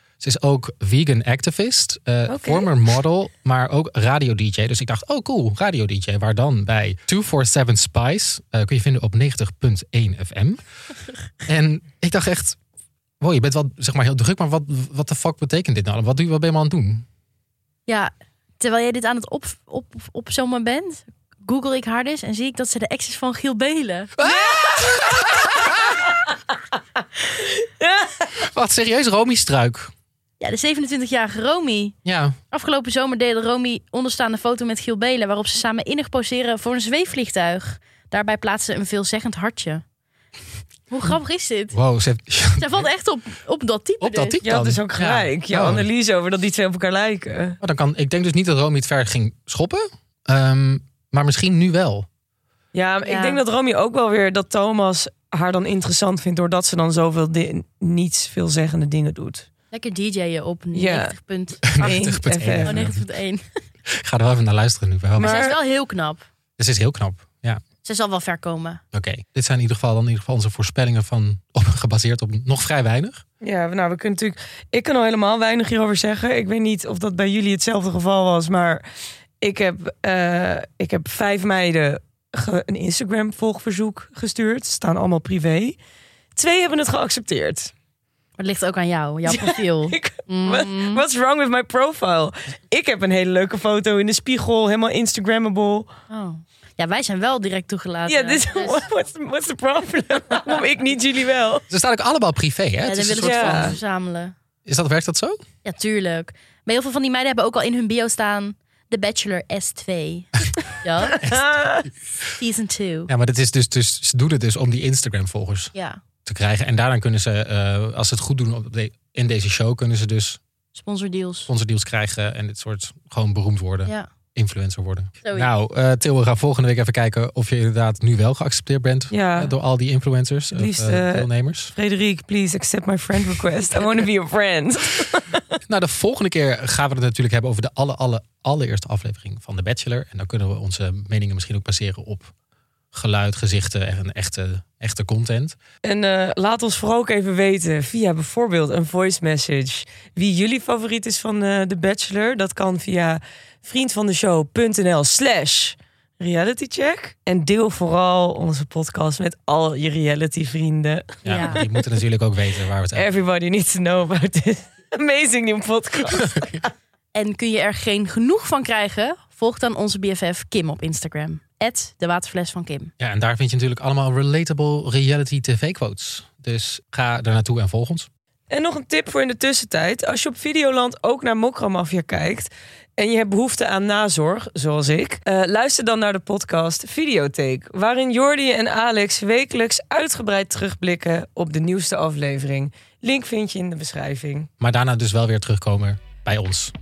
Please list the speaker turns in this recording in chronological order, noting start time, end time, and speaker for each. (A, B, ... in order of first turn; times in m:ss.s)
0:00.2-0:10.6 A
0:02.3-0:02.7 B
0:11.4-0:12.6 A
0:13.2-0:17.0 A
0:17.8-0:24.3 C
0:24.2-0:25.5 A
0:24.3-0:25.3 B
0:27.4-0:28.3 B
0:28.4-0:29.9 A
0:30.4-0:31.9 C
0:32.0-0:32.4 A
0:32.5-0:39.8 C
0:40.9-0:41.8 C
0:41.7-0:42.9 A
0:42.6-0:44.4 C
0:44.0-0:45.8 A
0:44.4-0:47.6 B
0:47.6-0:52.1 A
0:52.7-0:59.5 B
0:53.0-0:53.4 C
0:59.7-1:03.4 C
1:00.7-1:01.1 B
1:01.6-1:03.0 A
1:01.8-1:02.8 B
1:03.9-1:05.4 A
1:05.2-1:05.6 B
1:05.2-1:06.2 C
1:06.6-1:07.6 A
1:07.8-1:08.8 C
1:08.9-1:13.2 A
1:13.4-1:18.8 B
1:19.4-1:25.8 B
1:26.4-1:27.7 B
1:28.4-1:31.0 C
1:29.2-1:35.9 B
1:36.1-1:38.8 C
1:38.1-1:41.6 B
1:41.7-1:43.8 A
1:42.8-1:44.3 C
1:43.2-1:43.8 B
1:44.6-1:45.4 A
1:45.6-1:51.2 C
1:51.2-1:51.6 A
1:51.2-1:51.8 B
1:52.4-1:53.1 C
1:53.1-1:55.7 A
1:56.2-2:00.4 A
2:00.7-2:01.5 C
2:01.5-2:11.7 A
2:05.2-2:05.5 C
2:09.1-2:09.5 B
2:10.5-2:15.4 B
2:15.7-2:22.3 A
2:22.9-2:25.6 A
2:25.8-2:41.6 B
2:41.2-2:43.0 A
2:41.2-2:41.6 C
2:42.9-2:46.7 B
2:47.1-2:52.9 C
2:53.0-2:58.1 A
2:58.5-3:14.5 B
3:14.6-3:16.7 A